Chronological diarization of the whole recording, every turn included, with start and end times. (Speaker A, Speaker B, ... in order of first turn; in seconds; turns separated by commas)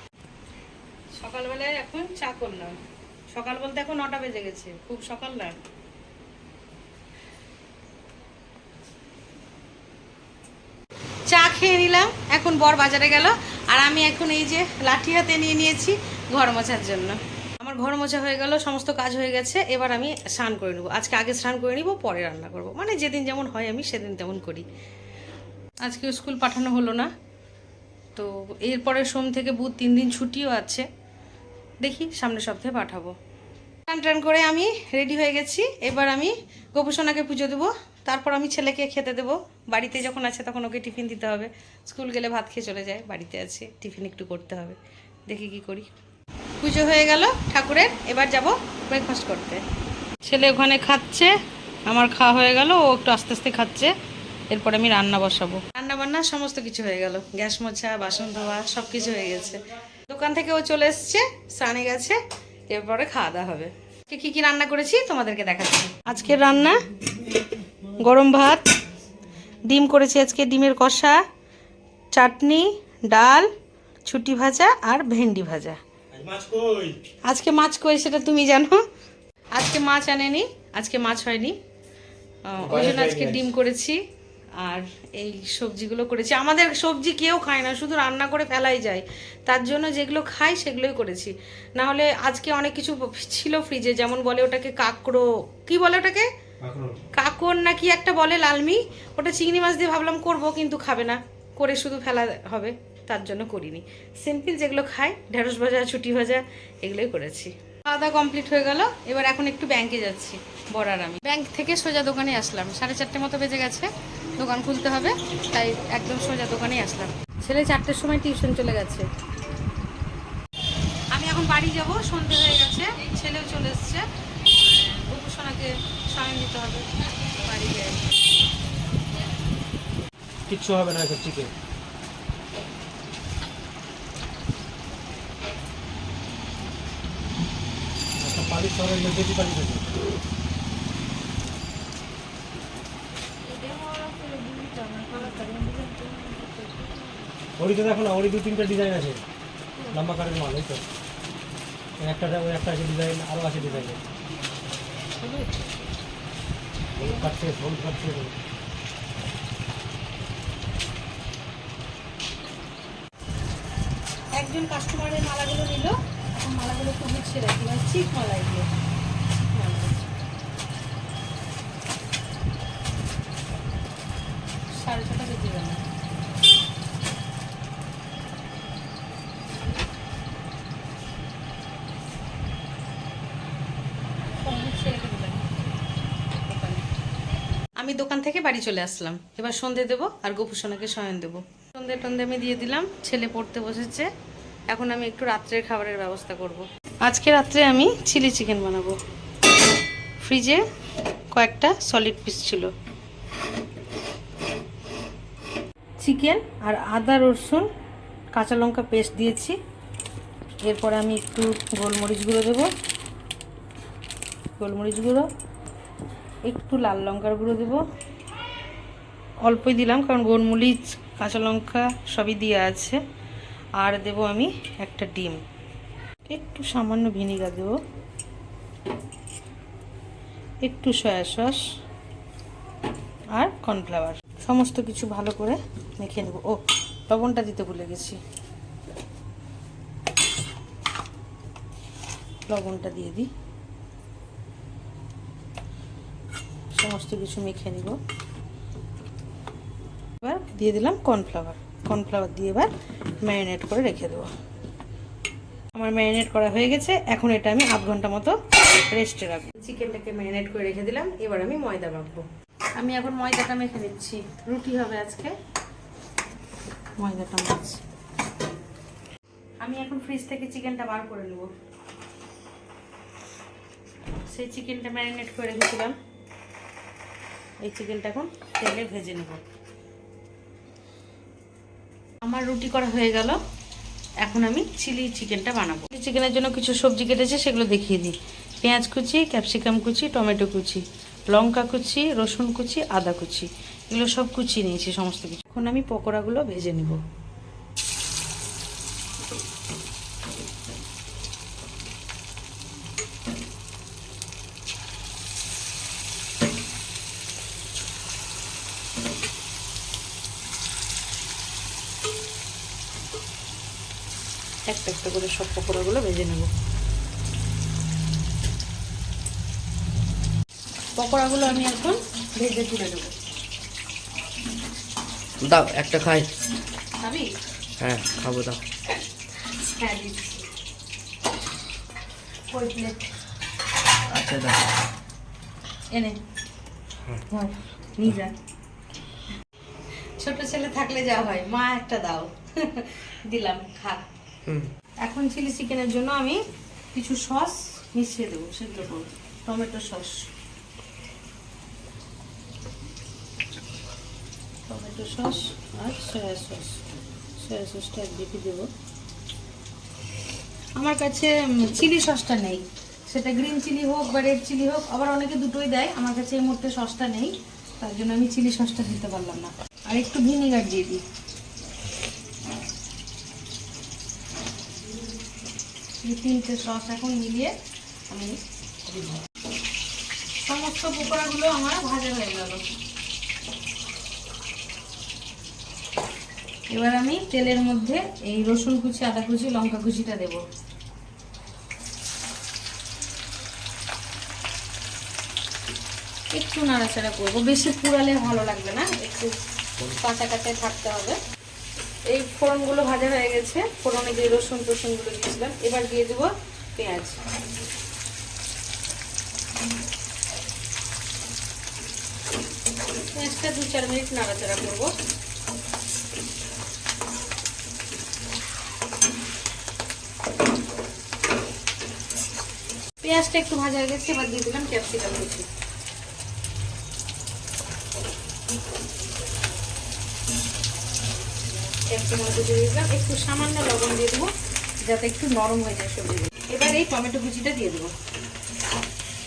Speaker A: 1.1-2.8, Speaker A: 3.3-5.6, Speaker A: 11.2-24.7, Speaker A: 25.8-27.1, Speaker A: 28.1-30.9, Speaker A: 31.8-33.1, Speaker A: 33.9-45.9, Speaker A: 46.6-49.6, Speaker A: 50.2-51.3, Speaker A: 51.9-53.9, Speaker A: 54.5-62.2, Speaker A: 62.7-66.8, Speaker A: 68.0-68.7, Speaker A: 69.6-71.2, Speaker A: 72.1-73.5, Speaker A: 74.0-75.8, Speaker B: 76.1-77.0, Speaker A: 77.2-78.8, Speaker A: 79.5-81.6, Speaker A: 82.4-84.0, Speaker B: 82.6-83.5, Speaker A: 84.6-96.3, Speaker B: 96.6-97.0, Speaker A: 97.1-119.1, Speaker A: 121.1-128.1, Speaker B: 130.5-131.5, Speaker B: 138.2-139.8, Speaker A: 143.5-147.2, Speaker B: 147.6-149.2, Speaker B: 149.9-150.8, Speaker B: 152.0-154.0, Speaker A: 155.2-155.8, Speaker B: 156.9-158.3, Speaker A: 164.3-168.7, Speaker A: 169.4-170.0, Speaker A: 174.7-175.8, Speaker A: 184.4-185.5, Speaker A: 186.3-186.8, Speaker A: 187.8-194.1, Speaker A: 194.7-199.0, Speaker A: 200.2-200.6, Speaker A: 201.3-202.7, Speaker A: 206.0-207.7, Speaker A: 208.3-209.6, Speaker A: 210.6-212.7, Speaker A: 214.6-215.3, Speaker A: 216.4-217.8, Speaker A: 219.4-223.0, Speaker A: 223.8-225.4, Speaker A: 226.2-227.8, Speaker A: 230.6-231.6, Speaker A: 233.3-238.2, Speaker A: 242.5-243.3, Speaker A: 246.7-248.0, Speaker A: 250.2-252.7, Speaker A: 253.2-254.3, Speaker A: 255.7-265.4, Speaker A: 267.0-267.8, Speaker A: 269.6-271.5, Speaker A: 274.3-275.9, Speaker A: 277.6-279.4, Speaker A: 282.2-283.4, Speaker A: 284.2-297.0, Speaker A: 314.7-316.5, Speaker A: 320.9-323.1, Speaker C: 325.4-326.3, Speaker A: 327.0-327.3, Speaker C: 327.8-328.6, Speaker A: 329.4-330.4, Speaker A: 332.5-333.0, Speaker C: 334.1-334.7, Speaker A: 335.9-336.2, Speaker A: 337.3-338.3, Speaker A: 340.2-344.1, Speaker A: 345.0-346.4, Speaker A: 346.9-350.3, Speaker A: 354.7-356.8, Speaker A: 357.4-358.7, Speaker A: 360.8-371.0, Speaker A: 376.0-377.5, Speaker A: 378.1-378.4, Speaker A: 380.4-382.6, Speaker A: 386.7-390.4, Speaker A: 396.3-401.2, Speaker A: 402.1-407.2, Speaker A: 413.1-414.9, Speaker A: 423.0-425.5, Speaker A: 431.9-434.3, Speaker A: 434.8-437.9